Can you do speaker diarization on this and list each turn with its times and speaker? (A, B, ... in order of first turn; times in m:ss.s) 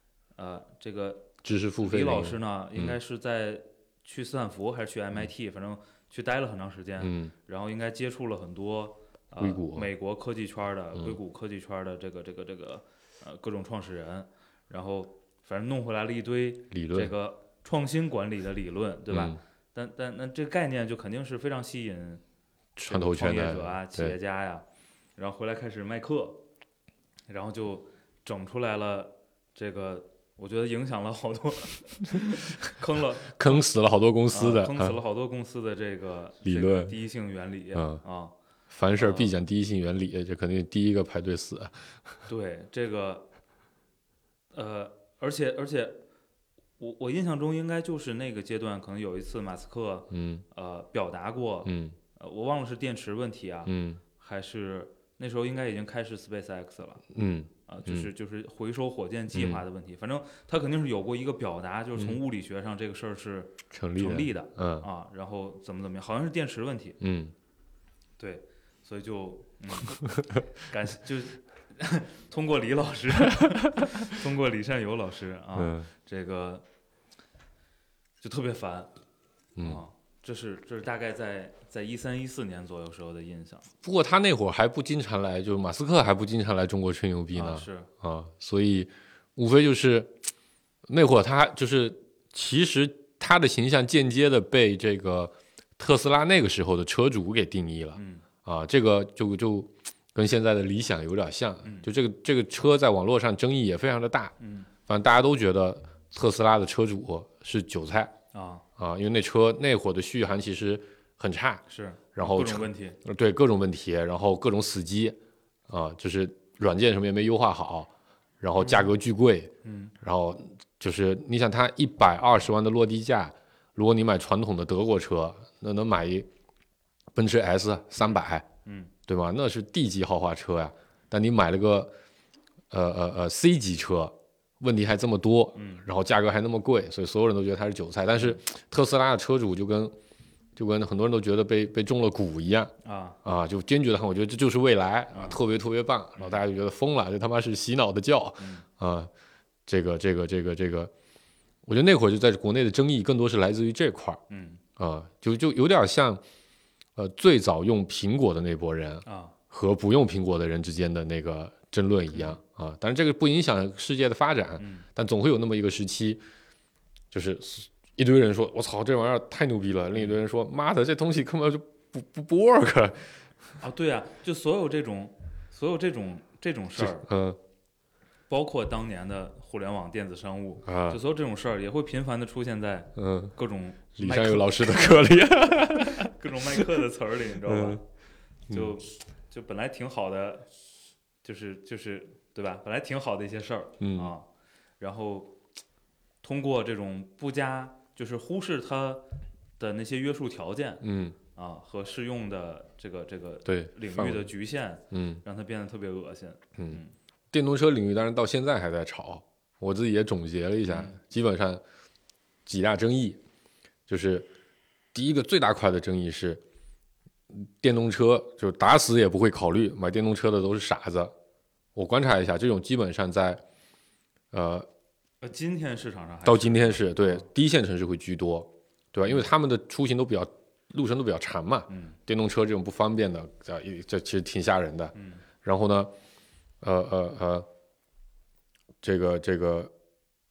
0:00.3-0:22.2 A
0:01.4-0:03.0 B
0:07.0-0:07.3 B
0:09.4-0:09.9 B
0:16.7-0:17.1 B
0:19.1-0:19.4 B
0:22.8-0:24.2 B
0:22.8-0:24.6 A
0:25.2-0:26.4 A
0:27.3-0:33.6 A
0:33.3-0:35.0 B
0:34.3-0:38.3 A
0:36.4-0:37.0 B
0:37.7-0:38.0 B
0:38.7-0:41.7 B
0:39.0-0:39.3 A
0:42.3-0:43.2 A
0:44.5-0:46.0 A
0:46.8-0:57.0 A
0:50.1-0:50.4 B
0:51.6-0:52.0 B
0:53.6-0:54.0 B
0:57.1-0:58.1 B
0:57.7-1:07.0 A
0:59.3-0:59.6 B
1:03.7-1:04.9 B
1:07.0-1:07.3 B
1:08.2-1:16.6 A
1:13.4-1:13.9 B
1:15.5-1:15.9 B
1:18.2-1:18.9 A
1:19.6-1:19.8 B
1:19.6-1:23.7 A
1:23.8-1:30.2 B
1:27.3-1:27.9 A
1:30.9-1:44.3 B
1:38.0-1:38.2 A
1:44.4-1:44.7 A
1:44.9-1:48.1 B
1:48.3-1:48.6 A
1:48.8-1:51.6 B
1:51.7-1:53.0 A
1:52.1-1:55.2 B
1:55.7-1:57.9 B
1:58.4-2:06.3 B
1:59.6-1:59.9 A
2:07.1-2:08.5 B
2:08.6-2:08.9 A
2:09.1-2:11.9 B
2:12.7-2:19.9 B
2:15.5-2:15.8 A
2:20.6-2:22.7 B
2:22.8-2:23.2 A
2:23.2-2:29.1 B
2:25.1-2:25.4 A
2:29.7-2:30.9 B
2:31.6-2:34.2 B
2:34.3-2:34.6 A
2:34.8-2:36.2 B
2:37.0-2:46.2 B
2:39.0-2:39.3 A
2:44.6-2:44.8 A
2:47.1-2:53.0 B
2:53.6-2:57.0 A
2:56.8-2:57.4 B
2:58.3-3:07.8 A
3:00.6-3:01.0 B
3:03.0-3:03.3 B
3:04.0-3:06.6 B
3:07.4-3:07.8 B
3:08.5-3:08.7 B
3:08.5-3:10.5 A
3:11.2-3:14.2 A
3:13.8-3:14.1 B
3:14.8-3:15.3 A
3:16.2-3:19.0 A
3:19.6-3:26.9 A
3:20.8-3:21.2 B
3:23.4-3:24.3 B
3:24.9-3:25.2 B
3:26.6-3:31.6 B
3:30.7-3:31.0 A
3:32.4-3:33.2 B
3:33.9-3:34.3 B
3:34.9-3:36.4 B
3:37.3-3:41.1 B
3:41.7-3:43.4 B
3:44.3-3:44.7 B
3:45.2-3:47.2 A
3:46.2-3:55.9 B
3:51.7-3:52.0 A
3:54.9-3:55.2 A
3:56.6-3:57.5 B
3:58.8-3:59.7 B